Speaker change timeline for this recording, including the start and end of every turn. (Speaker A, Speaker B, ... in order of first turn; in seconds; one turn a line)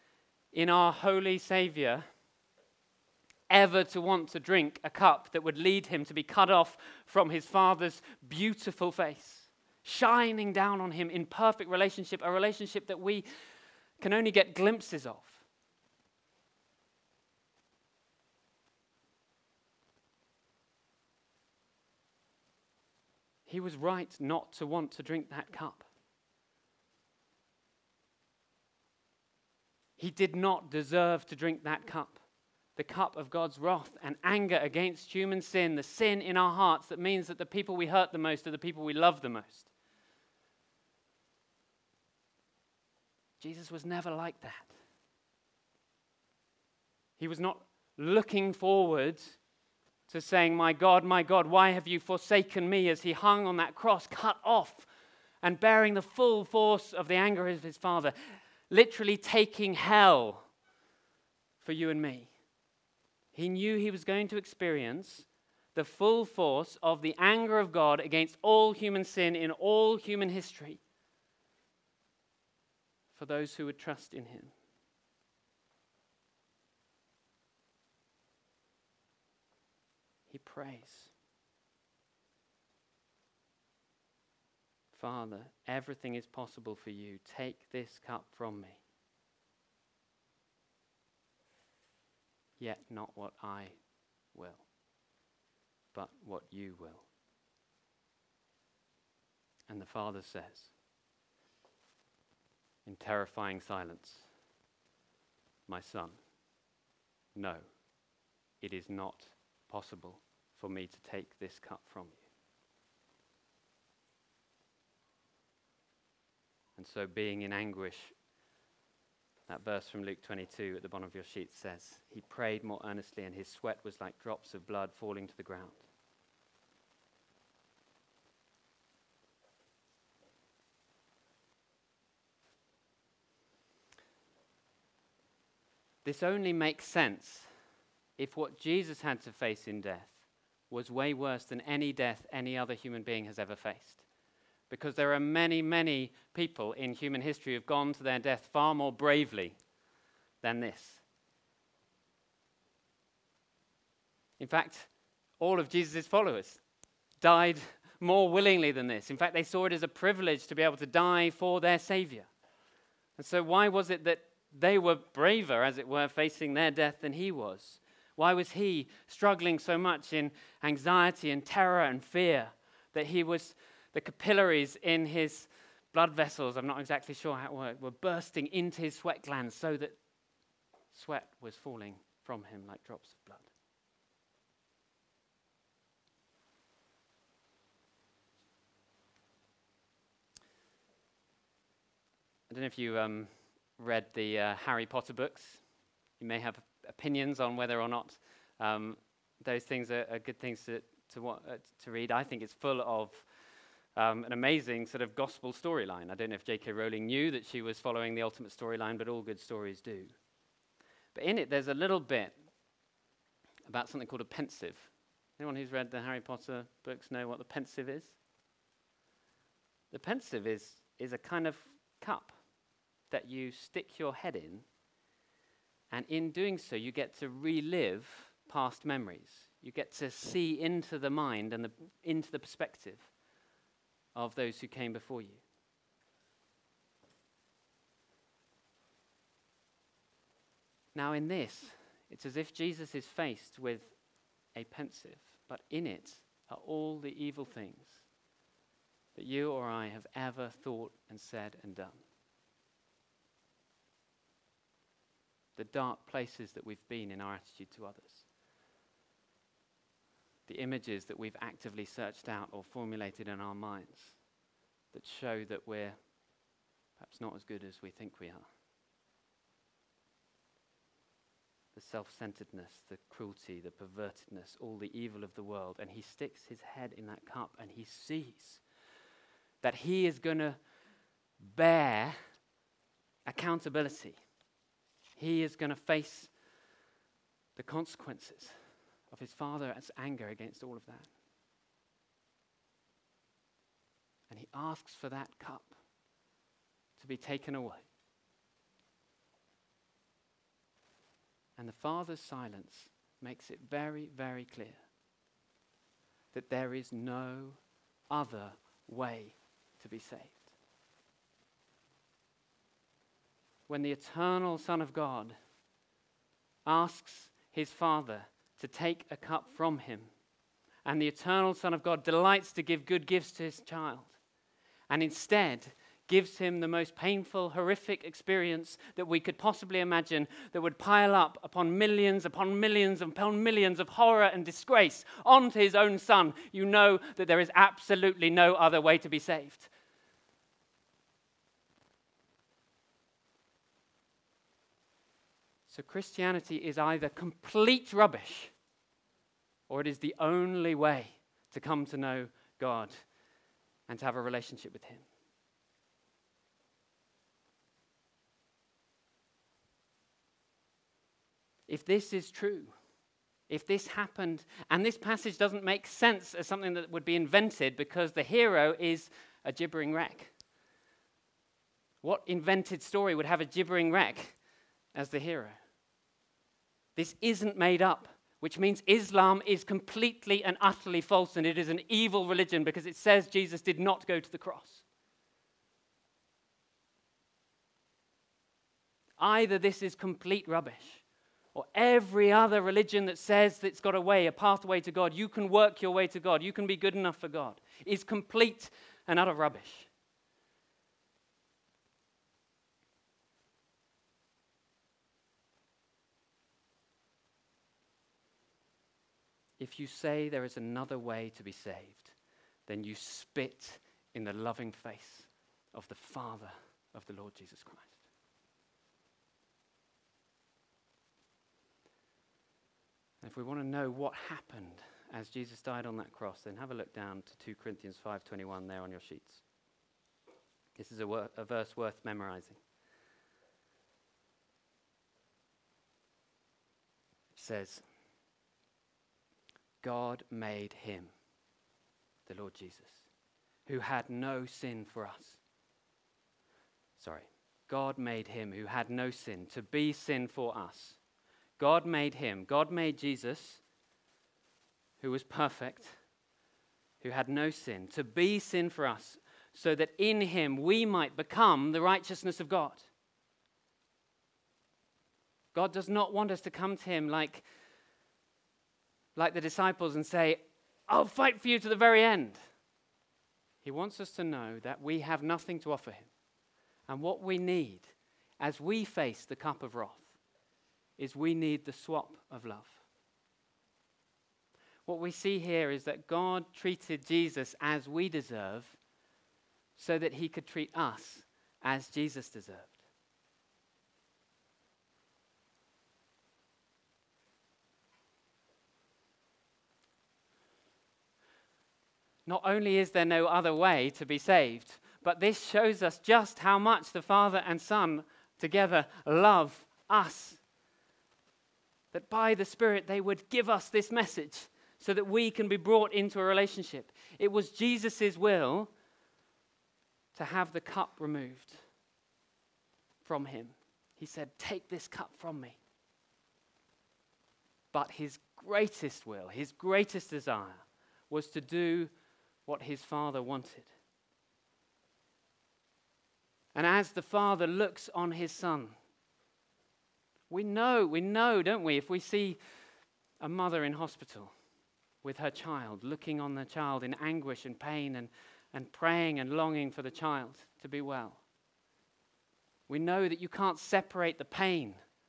Speaker A: 0.5-2.1
Speaker A: 3.5-13.3
Speaker A: 14.0-15.4
Speaker A: 23.4-25.9
Speaker A: 30.0-32.2
Speaker A: 32.8-39.7
Speaker A: 43.4-44.7
Speaker A: 47.2-49.4
Speaker A: 50.1-54.9
Speaker A: 55.4-60.5
Speaker A: 61.6-62.3
Speaker A: 63.3-70.8
Speaker A: 73.1-74.5
Speaker A: 80.3-81.1
Speaker A: 84.9-88.8
Speaker A: 92.6-93.8
Speaker A: 94.3-94.7
Speaker A: 95.9-97.1
Speaker A: 99.7-100.7
Speaker A: 102.8-104.3
Speaker A: 105.7-106.2
Speaker A: 107.3-107.6
Speaker A: 108.6-112.2
Speaker A: 116.8-118.1
Speaker A: 119.5-125.8
Speaker A: 136.0-137.5
Speaker A: 138.2-144.0
Speaker A: 144.7-149.6
Speaker A: 150.4-151.0
Speaker A: 154.4-156.6
Speaker A: 157.2-162.3
Speaker A: 163.2-180.0
Speaker A: 180.9-183.5
Speaker A: 192.5-195.6
Speaker A: 196.2-203.3
Speaker A: 203.9-210.1
Speaker A: 211.1-212.3
Speaker A: 213.7-218.2
Speaker A: 219.9-222.3
Speaker A: 223.1-224.7
Speaker A: 225.9-233.1
Speaker A: 234.1-235.4
Speaker A: 240.9-244.0
Speaker A: 244.5-248.0
Speaker A: 249.1-252.0
Speaker A: 255.6-258.2
Speaker A: 260.4-264.2
Speaker A: 264.9-266.0
Speaker A: 267.0-268.4
Speaker A: 271.7-278.6
Speaker A: 279.6-280.6
Speaker A: 281.4-282.2
Speaker A: 283.2-284.2
Speaker A: 285.1-286.3
Speaker A: 287.6-288.5
Speaker A: 289.1-291.1
Speaker A: 294.3-295.8
Speaker A: 296.9-297.9
Speaker A: 301.6-304.8
Speaker A: 306.3-310.5
Speaker A: 313.7-315.4
Speaker A: 316.6-320.1
Speaker A: 320.8-324.2
Speaker A: 324.9-339.7
Speaker A: 345.7-348.5
Speaker A: 349.7-353.1
Speaker A: 353.9-355.1
Speaker A: 361.7-362.7
Speaker A: 363.5-370.3
Speaker A: 372.0-374.4
Speaker A: 374.9-375.6
Speaker A: 376.9-384.8
Speaker A: 389.2-399.9
Speaker A: 409.6-412.1
Speaker A: 412.7-418.0
Speaker A: 423.2-429.4
Speaker A: 430.8-432.6
Speaker A: 437.3-437.8
Speaker A: 439.8-441.1
Speaker A: 442.2-443.1
Speaker A: 443.6-445.4
Speaker A: 447.0-451.0
Speaker A: 451.6-453.6
Speaker A: 455.0-456.0
Speaker A: 457.0-462.9
Speaker A: 465.5-467.4
Speaker A: 469.1-472.4
Speaker A: 473.6-476.1
Speaker A: 476.9-480.2
Speaker A: 481.0-482.8
Speaker A: 484.9-488.8
Speaker A: 489.8-492.8
Speaker A: 502.2-510.4
Speaker A: 511.9-518.7
Speaker A: 520.1-521.6
Speaker A: 523.0-525.6
Speaker A: 527.7-531.9
Speaker A: 532.5-533.7
Speaker A: 536.5-538.8
Speaker A: 540.3-542.4
Speaker A: 543.2-544.3
Speaker A: 545.0-551.2
Speaker A: 552.7-554.8